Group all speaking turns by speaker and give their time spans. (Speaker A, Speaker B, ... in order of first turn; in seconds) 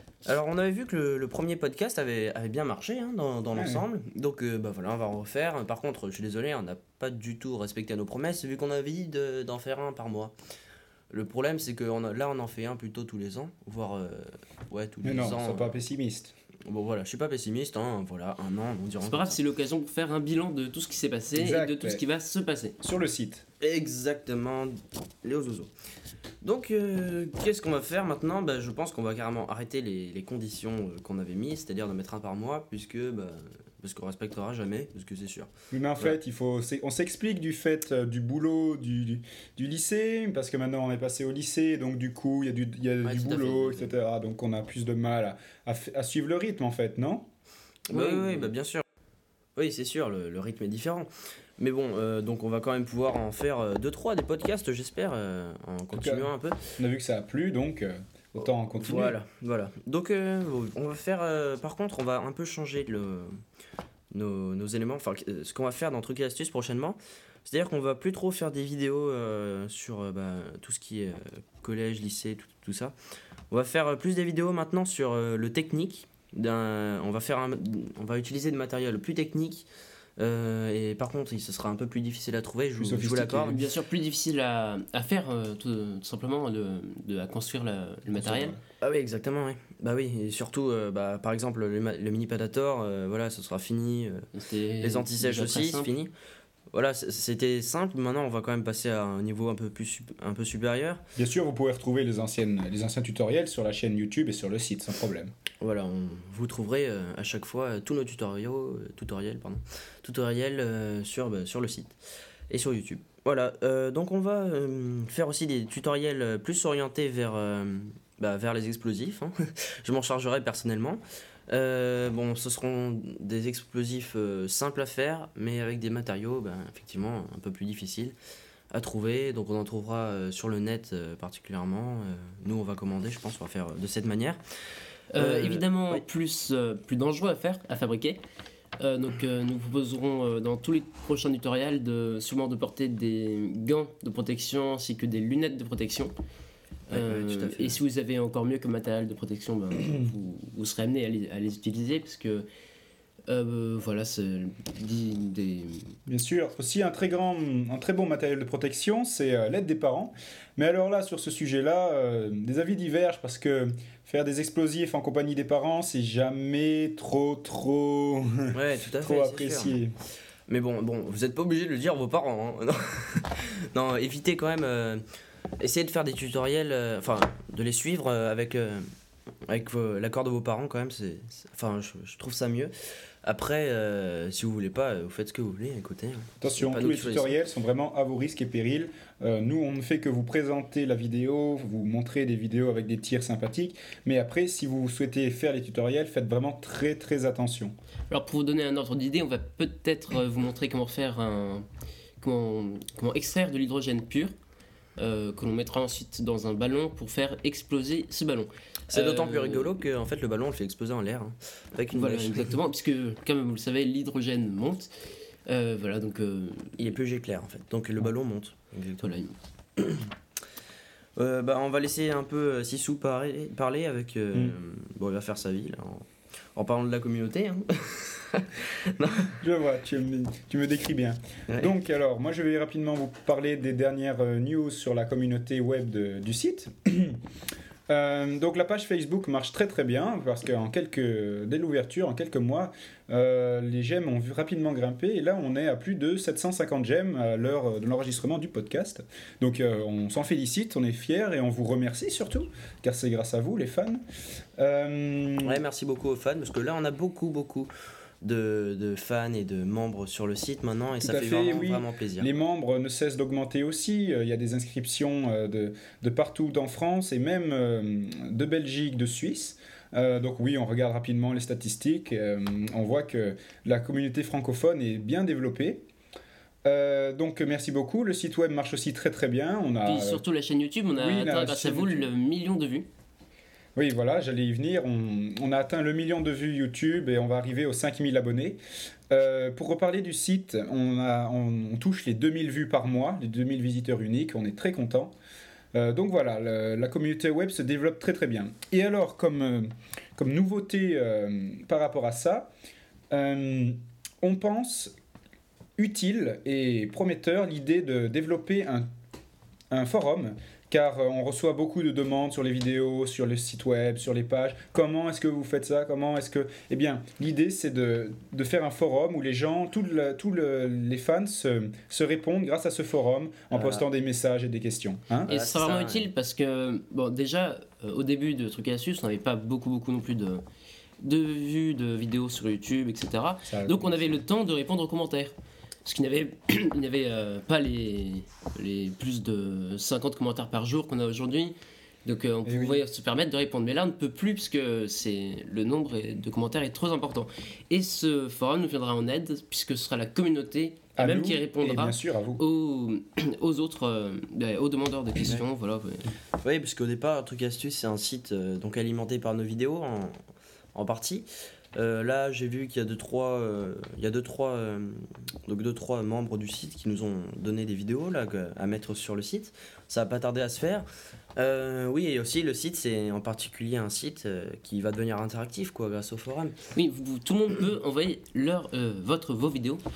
Speaker A: 0.2-10.3, 11.1-15.8, 16.7-19.4, 23.6-25.7, 26.4-36.2, 43.0-44.0, 47.9-48.8, 49.6-56.6, 58.7-63.3, 64.1-72.9, 73.5-79.7, 80.2-83.6, 88.8-94.2, 94.8-96.1, 96.7-101.0, 105.6-112.0, 112.5-128.2, 128.7-134.4, 135.2-136.0, 146.9-147.8, 168.5-169.8, 170.5-175.0, 175.6-178.8, 179.5-182.7, 183.2-187.4, 208.9-212.6, 216.8-219.1, 219.8-220.1, 221.2-226.0, 226.6-229.3, 255.4-257.7, 258.2-262.3, 323.5-323.9, 325.3-326.1, 356.4-360.1, 360.8-376.6
Speaker B: 3.5-3.8, 15.0-16.3, 21.4-22.0, 22.8-23.4, 35.7-47.3, 47.9-48.5, 55.9-59.2, 82.8-83.6, 88.2-88.6, 101.2-105.3, 156.1-169.9, 186.4-197.7, 229.4-237.2, 237.9-254.0, 254.6-255.6, 261.0-275.8, 276.6-280.2, 281.0-282.1, 283.8-288.6, 289.1-295.1, 295.7-302.5, 303.1-304.9, 305.8-308.9, 309.7-325.3, 333.5-334.1, 342.4-342.8, 351.0-352.4
Speaker C: 19.0-22.8, 83.4-88.6, 94.3-95.9, 135.1-138.2, 138.8-146.1, 146.9-152.5, 153.3-155.9, 198.1-201.7, 202.2-204.3, 205.0-209.8, 211.9-214.9, 215.5-216.9, 219.0-219.3, 279.8-282.9, 325.3-330.4, 331.0-335.3, 335.9-341.5, 342.1-356.1, 376.8-379.8